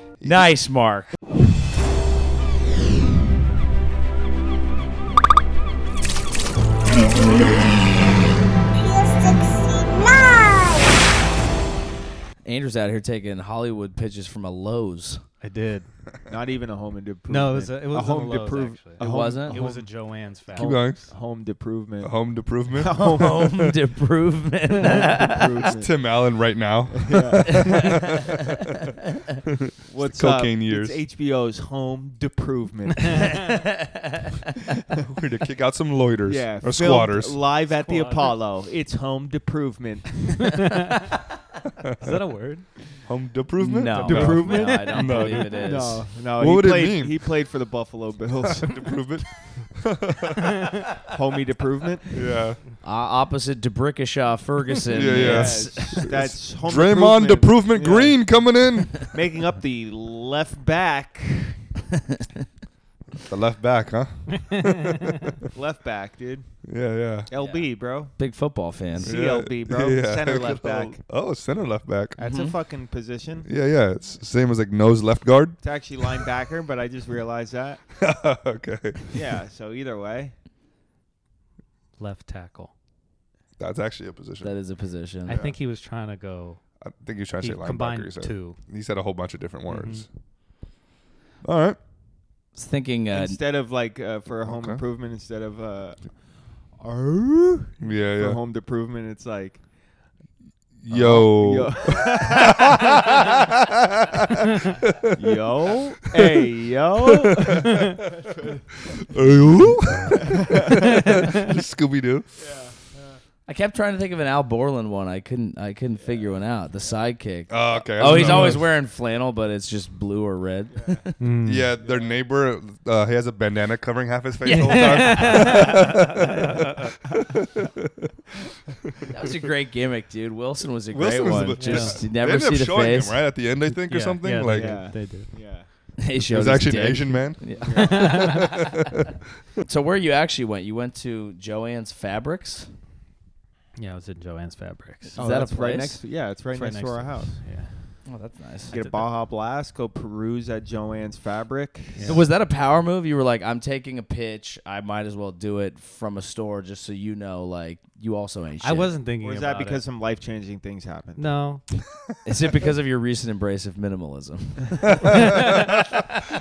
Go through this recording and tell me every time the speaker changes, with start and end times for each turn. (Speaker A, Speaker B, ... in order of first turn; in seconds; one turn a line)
Speaker A: 0.2-0.5
Speaker B: 0.2-1.2
Speaker B: 12.4-15.2
Speaker C: 15.4-15.9
Speaker D: 16.3-19.9
Speaker C: 17.3-20.8
Speaker B: 19.0-19.6
Speaker D: 20.5-22.2
Speaker A: 20.6-21.1
Speaker A: 22.0-23.7
Speaker D: 22.7-23.7
Speaker B: 22.9-25.7
Speaker D: 24.8-26.0
Speaker A: 25.6-28.2
Speaker D: 26.9-27.9
Speaker B: 27.5-28.4
Speaker A: 29.5-31.0
Speaker D: 29.9-33.6
Speaker B: 33.1-34.3
Speaker A: 35.1-37.4
Speaker D: 36.3-40.7
Speaker C: 37.7-38.4
Speaker C: 42.0-42.8
Speaker A: 43.1-45.7
Speaker B: 43.6-46.0
Speaker C: 44.0-45.9
Speaker D: 44.0-48.8
Speaker A: 46.4-47.3
Speaker A: 48.5-50.6
Speaker D: 51.0-52.1
Speaker A: 52.1-52.6
Speaker B: 52.8-56.1
Speaker A: 54.9-59.0
Speaker D: 55.1-58.4
Speaker D: 58.9-61.6
Speaker A: 63.2-65.4
Speaker C: 64.5-65.1
Speaker D: 65.5-66.5
Speaker A: 66.7-67.3
Speaker D: 67.3-68.1
Speaker B: 67.3-69.1
Speaker D: 69.0-71.0
Speaker A: 69.0-72.2
Speaker D: 72.2-73.5
Speaker B: 72.2-72.6
Speaker A: 73.5-75.6
Speaker D: 75.6-77.8
Speaker A: 78.0-79.0
Speaker D: 79.1-80.3
Speaker C: 82.0-82.7
Speaker A: 83.6-84.5
Speaker B: 84.4-85.4
Speaker A: 85.3-85.6
Speaker C: 85.3-86.6
Speaker A: 86.8-90.1
Speaker C: 87.4-88.6
Speaker C: 89.7-90.0
Speaker A: 91.4-91.8
Speaker B: 92.5-93.4
Speaker D: 93.1-96.1
Speaker A: 94.5-94.8
Speaker D: 96.8-99.6
Speaker A: 97.8-98.4
Speaker A: 100.8-105.0
Speaker D: 100.9-103.2
Speaker D: 105.1-108.9
Speaker A: 106.2-106.4
Speaker A: 107.5-108.1
Speaker A: 108.9-112.3
Speaker D: 110.3-110.8
Speaker C: 110.7-111.4
Speaker D: 112.4-113.2
Speaker B: 113.5-121.2
Speaker D: 116.0-116.3
Speaker A: 117.5-118.7
Speaker C: 118.0-118.6
Speaker D: 120.7-121.0
Speaker C: 121.2-121.7
Speaker A: 121.5-128.1
Speaker D: 121.8-122.2
Speaker B: 124.4-126.1
Speaker C: 124.5-125.7
Speaker B: 129.1-133.2
Speaker A: 130.9-134.9
Speaker C: 131.6-132.0
Speaker C: 133.7-135.3
Speaker D: 134.5-135.7
Speaker B: 136.0-138.4
Speaker A: 136.2-139.1
Speaker D: 137.6-138.3
Speaker C: 137.8-138.4
Speaker B: 139.6-142.7
Speaker C: 143.8-145.2
Speaker B: 145.2-146.0
Speaker D: 145.2-147.4
Speaker C: 146.5-147.8
Speaker B: 148.1-148.8
Speaker C: 148.7-149.1
Speaker D: 148.7-152.2
Speaker C: 152.0-152.3
Speaker B: 152.1-159.0
Speaker C: 158.6-159.8
Speaker D: 159.2-161.3
Speaker C: 161.2-161.6
Speaker B: 162.2-166.0
Speaker C: 165.3-165.7